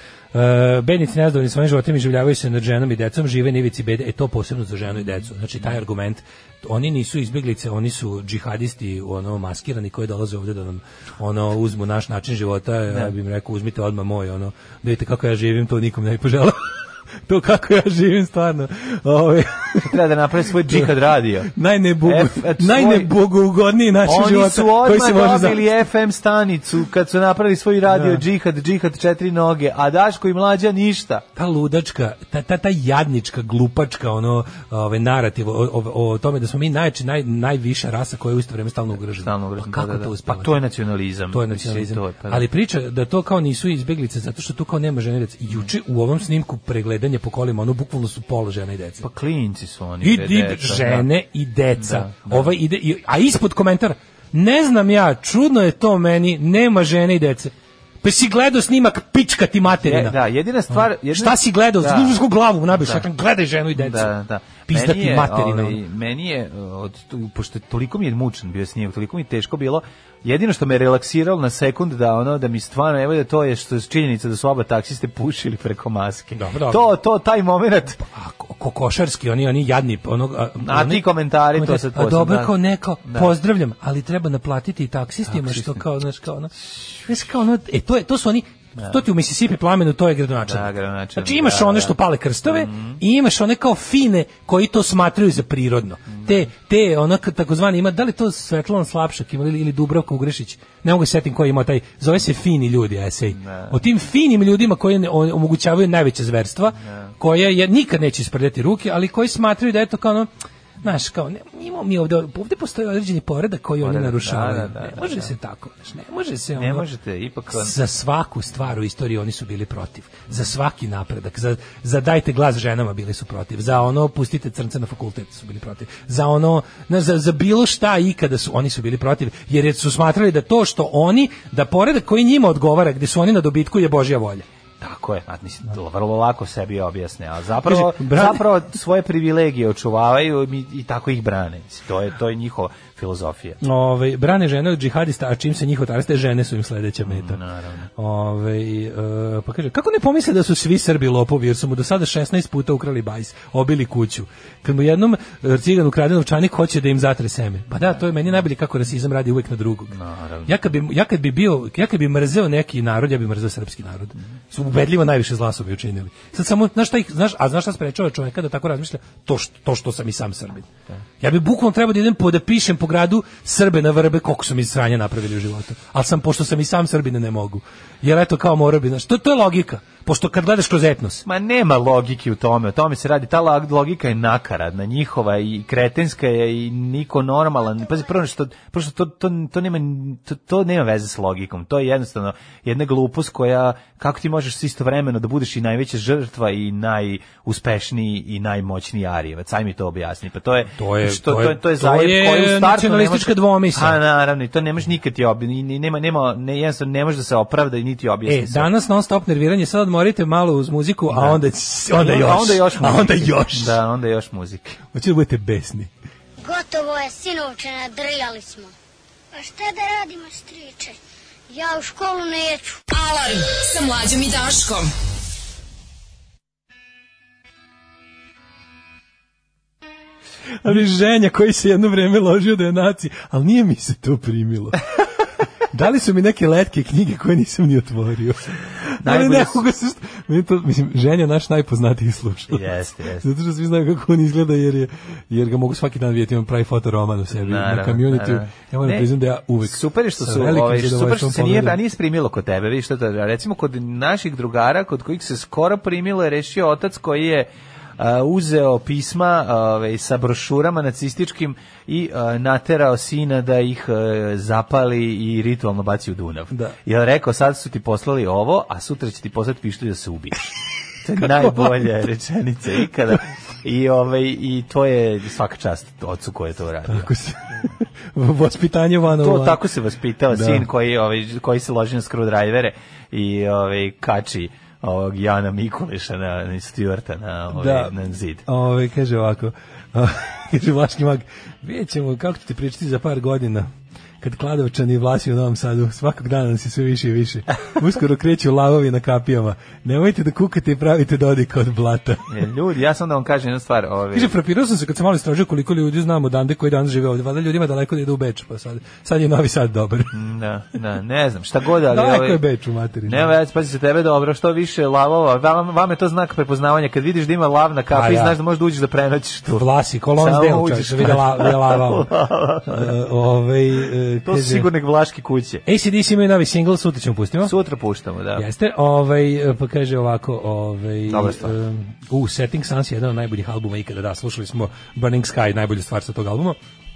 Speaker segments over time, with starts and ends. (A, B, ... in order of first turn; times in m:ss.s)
0:00.3-0:16.7 A
0:17.3-0:19.9 A
0:19.9-0:21.5 B
0:21.4-0:25.7 A
0:22.0-0:23.1 B
0:24.0-0:31.2 B
0:27.9-0:28.2 A
0:31.4-0:40.6 A
0:39.1-0:42.5 B
0:41.3-0:49.0 A
0:49.0-0:51.1 B
0:50.0-1:00.2 A
0:51.8-0:52.6 B
0:59.8-1:02.2 B
1:00.7-1:04.1 A
1:02.7-1:03.0 B
1:03.8-1:18.0 B
1:04.7-1:05.8 A
1:16.3-1:16.9 A
1:18.1-1:26.5 A
1:20.6-1:23.3 B
1:25.3-1:25.8 B
1:27.1-1:50.3 A
1:30.4-1:31.9 B
1:32.5-1:33.0 B
1:43.3-1:43.8 B
1:50.8-1:56.9 A
1:53.8-1:55.3 B
1:56.6-1:57.8 B
1:57.5-2:14.5 A
2:14.8-2:23.6 B
2:17.6-2:18.5 A
2:23.6-2:27.4 A
2:27.0-2:27.9 B
2:28.0-2:40.0 A
2:39.9-2:40.6 B
2:40.5-3:01.2 A
3:01.3-3:28.7 B
3:20.8-3:24.0 A
3:28.3-3:33.8 A
3:31.1-3:31.4 B
3:31.9-3:34.8 B
3:34.9-3:35.9 A
3:36.4-3:38.7 C
3:39.3-3:41.0 C
3:41.5-3:42.8 C
3:42.9-3:44.9 D
3:50.6-3:54.8 A
3:55.7-4:02.6 A
3:59.0-3:59.6 B
4:02.5-4:03.3 B
4:03.2-4:11.8 A
4:07.4-4:09.1 B
4:09.6-4:37.1 B
4:26.5-4:26.8 A
4:31.2-4:31.9 A
4:36.9-4:39.6 A
4:39.2-4:48.4 B
4:40.3-4:40.7 A
4:47.5-4:47.9 A
4:48.5-4:53.7 A
4:54.2-5:02.4 A
5:02.3-5:04.4 B
5:04.1-5:10.1 A
5:10.1-5:12.4 B
5:11.9-5:13.3 A
5:13.1-5:22.9 B
5:17.9-5:18.4 A
5:19.6-5:22.1 A
5:22.7-5:24.7 A
5:24.2-5:25.6 B
5:25.7-5:27.5 A
5:27.4-5:28.5 B
5:28.4-5:36.6 A
5:31.1-5:31.6 B